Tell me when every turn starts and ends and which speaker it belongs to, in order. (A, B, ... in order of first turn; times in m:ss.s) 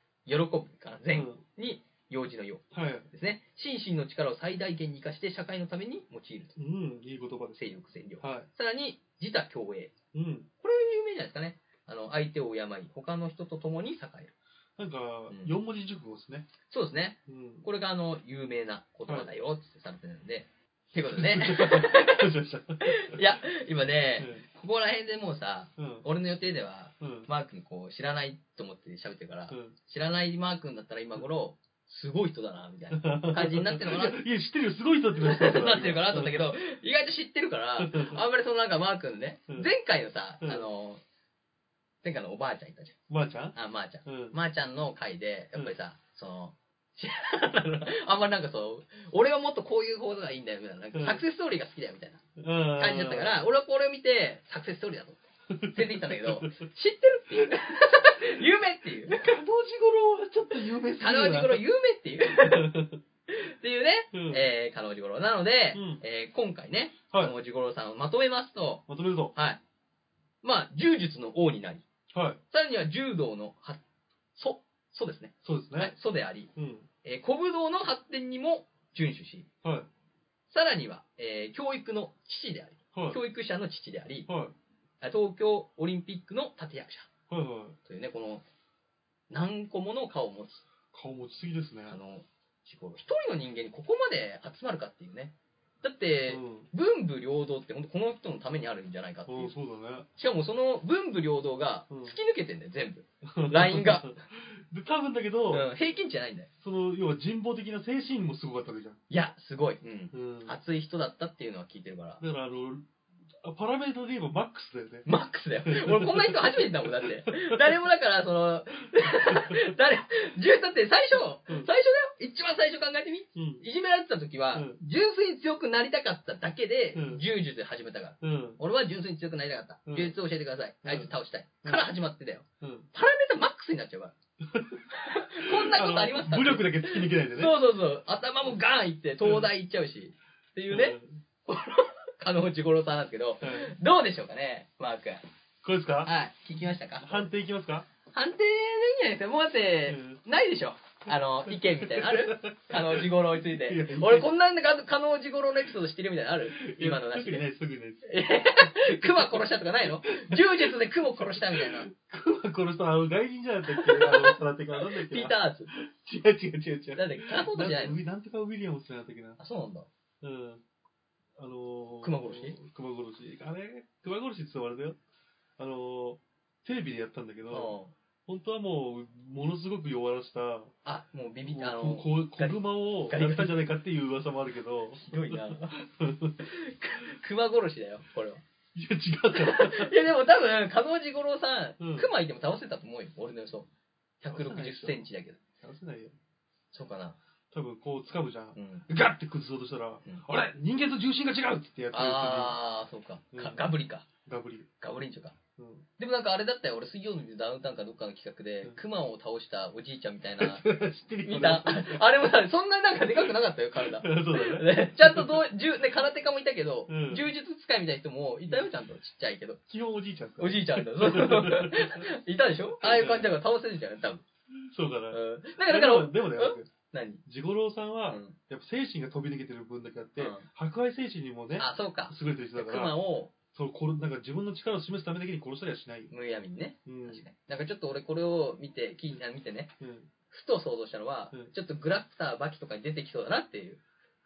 0:00.2-0:06.6 A
0:01.1-0:01.4 B
0:02.7-0:03.1 B
0:06.6-0:07.6 B
0:07.5-0:09.9 A
0:08.2-0:08.5 B
0:10.1-0:10.5 B
0:10.6-0:14.3 A
0:14.8-0:16.5 B
0:15.3-0:15.5 A
0:16.7-0:22.3 A
0:17.3-0:17.6 B
0:21.1-0:23.2 B
0:22.8-0:34.2 A
0:24.2-0:24.4 B
0:25.8-0:26.0 B
0:27.0-0:27.3 B
0:29.5-0:29.7 B
0:32.9-0:36.5 B
0:35.2-0:41.0 A
0:37.8-0:38.2 B
0:40.4-0:40.7 B
0:42.0-0:43.0 A
0:43.1-0:44.4 B
0:43.5-0:52.2 A
0:50.9-0:51.2 B
0:52.4-0:53.4 B
0:52.8-0:59.4 A
0:55.5-0:56.6 B
0:59.0-1:01.6 B
1:00.9-1:02.8 A
1:02.3-1:03.0 B
1:03.3-1:09.6 A
1:04.1-1:04.5 B
1:05.7-1:06.0 B
1:08.9-1:09.3 B
1:10.4-1:11.8 A
1:12.1-1:12.4 B
1:12.5-1:13.8 A
1:14.3-1:16.5 A
1:15.4-1:15.9 B
1:16.6-1:16.9 B
1:17.0-1:19.5 A
1:19.6-1:19.9 B
1:20.5-1:24.3 A
1:22.9-1:23.2 B
1:24.3-1:24.5 B
1:25.0-1:27.1 A
1:27.3-1:27.8 B
1:27.8-1:28.4 A
1:29.3-1:30.6 A
1:30.9-1:32.0 B
1:31.9-1:39.5 A
1:36.3-1:36.7 B
1:39.3-1:40.1 B
1:40.2-1:44.2 A
1:41.9-1:42.2 B
1:43.2-1:45.7 B
1:45.5-1:46.5 A
1:46.6-1:49.0 B
1:49.1-1:52.2 A
1:50.1-1:50.6 B
1:52.2-1:52.9 B
1:53.4-1:55.1 B
1:55.0-2:14.1 A
1:55.6-1:57.6 B
1:59.3-1:59.7 B
2:03.4-2:03.6 B
2:04.5-2:04.8 B
2:06.9-2:07.2 B
2:08.2-2:08.6 B
2:09.8-2:10.2 B
2:10.8-2:11.1 B
2:11.6-2:11.9 B
2:12.6-2:12.9 B
2:14.4-2:17.6 B
2:14.9-2:25.2 A
2:20.7-2:21.2 B
2:23.4-2:23.7 B
2:25.6-2:26.1 B
2:26.0-2:27.3 A
2:27.0-2:27.9 B
2:28.1-2:37.4 A
2:29.9-2:30.2 B
2:31.5-2:34.3 B
2:36.5-2:49.4 B
2:38.0-2:41.9 A
2:43.6-2:45.7 A
2:46.9-2:48.0 A
2:49.4-2:49.9 A
2:50.2-2:50.6 B
2:51.4-2:55.0 B
2:52.0-2:52.6 A
2:55.6-2:57.8 B
2:57.5-2:57.9 A
2:58.3-3:00.7 B
3:00.8-3:03.5 A
3:01.4-3:06.4 B
3:05.0-3:05.8 A
3:06.4-3:08.4 A
3:08.7-3:09.9 B
3:09.3-3:13.7 A
3:11.8-3:12.1 B
3:14.2-3:15.4 A
3:14.3-3:15.1 B
3:15.6-3:16.1 B
3:16.7-3:17.2 A
3:17.5-3:22.6 B
3:18.6-3:18.8 A
3:21.9-3:24.1 A
3:23.3-3:23.6 B
3:24.2-3:24.7 B
3:24.8-3:25.4 A
3:25.6-3:25.8 B
3:26.0-3:30.6 A
3:30.4-3:32.0 B
3:31.2-3:39.6 A
3:33.2-3:35.4 B
3:36.9-3:37.3 B
3:39.7-3:42.0 B
3:40.4-3:44.2 A
3:42.8-3:43.3 B
3:44.6-3:46.7 B
3:45.1-3:47.2 A
3:47.2-3:53.0 B
3:48.1-3:48.4 A
3:50.2-3:50.5 A
3:51.6-3:53.3 A
3:53.5-3:56.1 B
3:56.1-3:59.7 A
3:56.8-3:57.2 B
3:59.8-4:00.1 B
4:00.3-4:03.8 A